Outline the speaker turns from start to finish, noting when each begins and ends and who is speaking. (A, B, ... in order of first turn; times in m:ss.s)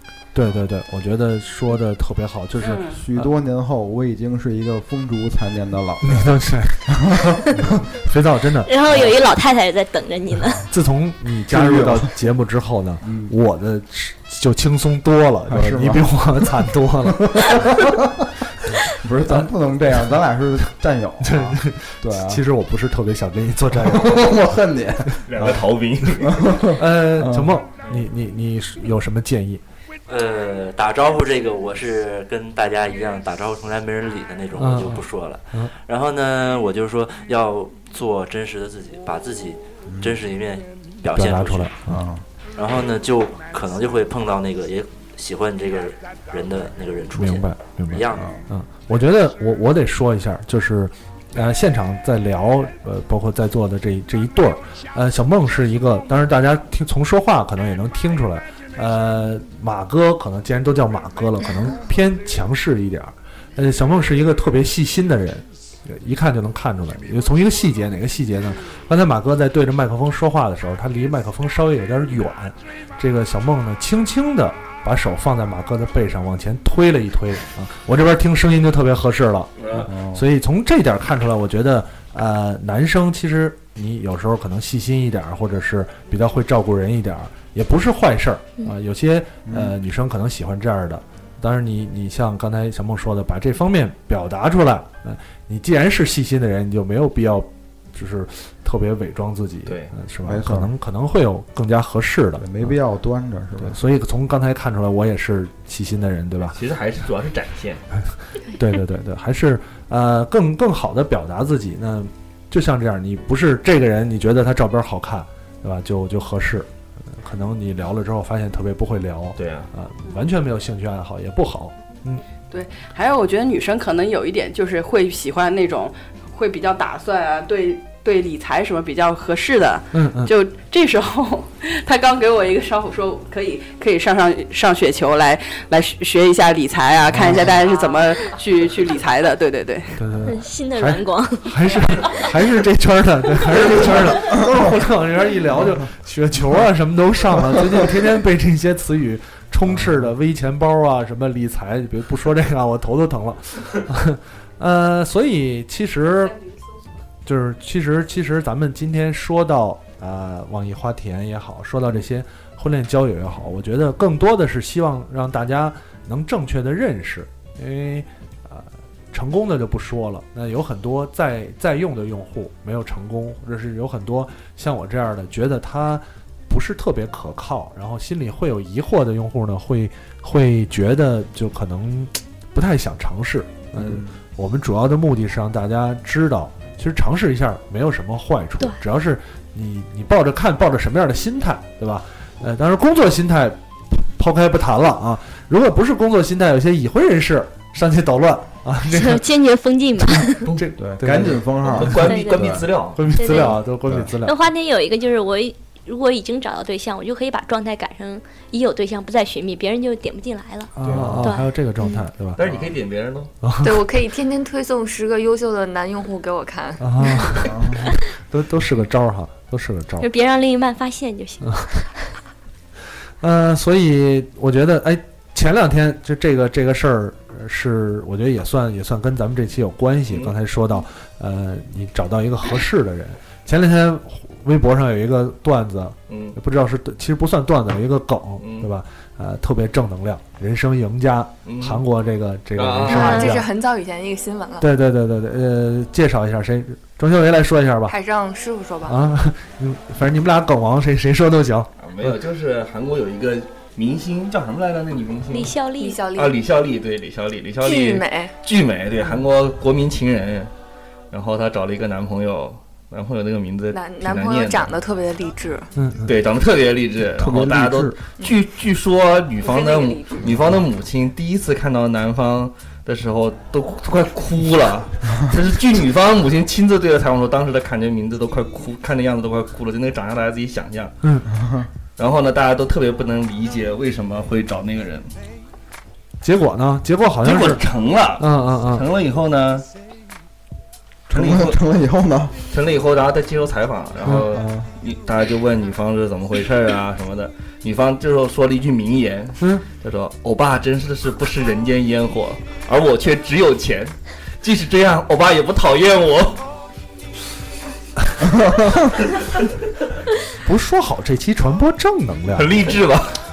0:00.3-0:03.3 A
0:02.6-0:03.0 B
0:02.9-0:06.4 C
0:06.0-0:08.7 A
0:06.9-0:07.8 C
0:08.7-0:10.6 D
0:08.9-0:09.2 C
0:10.7-0:17.9 A
0:11.5-0:12.2 C
0:13.0-0:13.3 C
0:15.5-0:16.5 C
0:17.1-0:18.1 C
0:18.8-0:22.4 C
0:21.2-0:24.4 A
0:23.8-0:25.1 C
0:25.3-0:26.6 E
0:26.2-0:27.6 C
0:26.8-0:29.6 A
0:30.1-0:41.7 F
0:34.6-0:35.7 A
0:39.9-0:40.2 C
0:41.2-0:42.0 A
0:41.9-0:42.2 C
0:42.6-0:48.4 F
0:47.1-1:42.7 A
0:48.1-0:48.4 C
1:19.6-1:19.9 E
1:19.9-1:20.2 C
1:29.4-1:29.7 C
1:39.7-1:39.9 E
1:40.2-1:40.7 C
1:42.4-1:43.8 C
1:43.6-1:46.6 A
1:46.5-1:47.8 E
1:48.5-2:02.2 A
1:59.4-1:59.7 E
2:02.5-2:20.0 B
2:09.9-2:10.3 A
2:17.1-2:17.6 A
2:20.0-2:36.4 A
2:20.2-2:22.2 D
2:29.7-2:30.0 C
2:37.2-3:19.2 A
3:03.8-3:04.2 C
3:18.9-3:20.4 D
3:20.2-3:21.4 A
3:20.8-3:22.6 C
3:21.6-3:23.5 E
3:22.1-3:22.5 D
3:23.0-3:24.4 A
3:23.2-3:23.6 D
3:24.2-3:32.0 D
3:30.8-3:32.4 A
3:30.8-3:31.3 C
3:32.4-3:33.3 E
3:32.4-3:32.7 C
3:33.4-3:33.7 A
3:33.6-3:37.2 G
3:36.8-3:40.1 A
3:37.4-3:37.9 C
3:40.0-3:42.1 D
3:43.2-4:03.5 A
3:50.1-3:50.3 E
3:56.1-3:56.4 E
3:58.4-3:58.7 E
4:01.4-4:01.8 E
4:02.6-4:03.3 E
4:02.8-4:04.7 G
4:02.9-4:03.3 D
4:04.6-4:08.0 A
4:07.9-4:09.0 G
4:08.8-4:12.1 A
4:11.8-4:15.5 E
4:15.3-4:16.1 D
4:15.8-4:16.4 G
4:16.1-4:20.5 E
4:17.6-4:18.3 G
4:21.1-4:24.7 E
4:23.7-4:25.7 G
4:25.8-4:26.1 A
4:26.0-4:41.0 E
4:27.2-4:28.0 A
4:29.4-4:30.3 G
4:41.0-4:41.3 A
4:41.3-4:41.7 C
4:42.0-4:45.1 E
4:46.2-4:48.9 A
4:47.2-4:49.7 E
4:51.1-4:52.3 C
4:51.1-4:51.6 E
4:52.5-5:06.5 E
4:54.0-4:54.7 A
5:08.2-5:09.0 C
5:10.4-5:12.7 A
5:12.3-5:13.2 E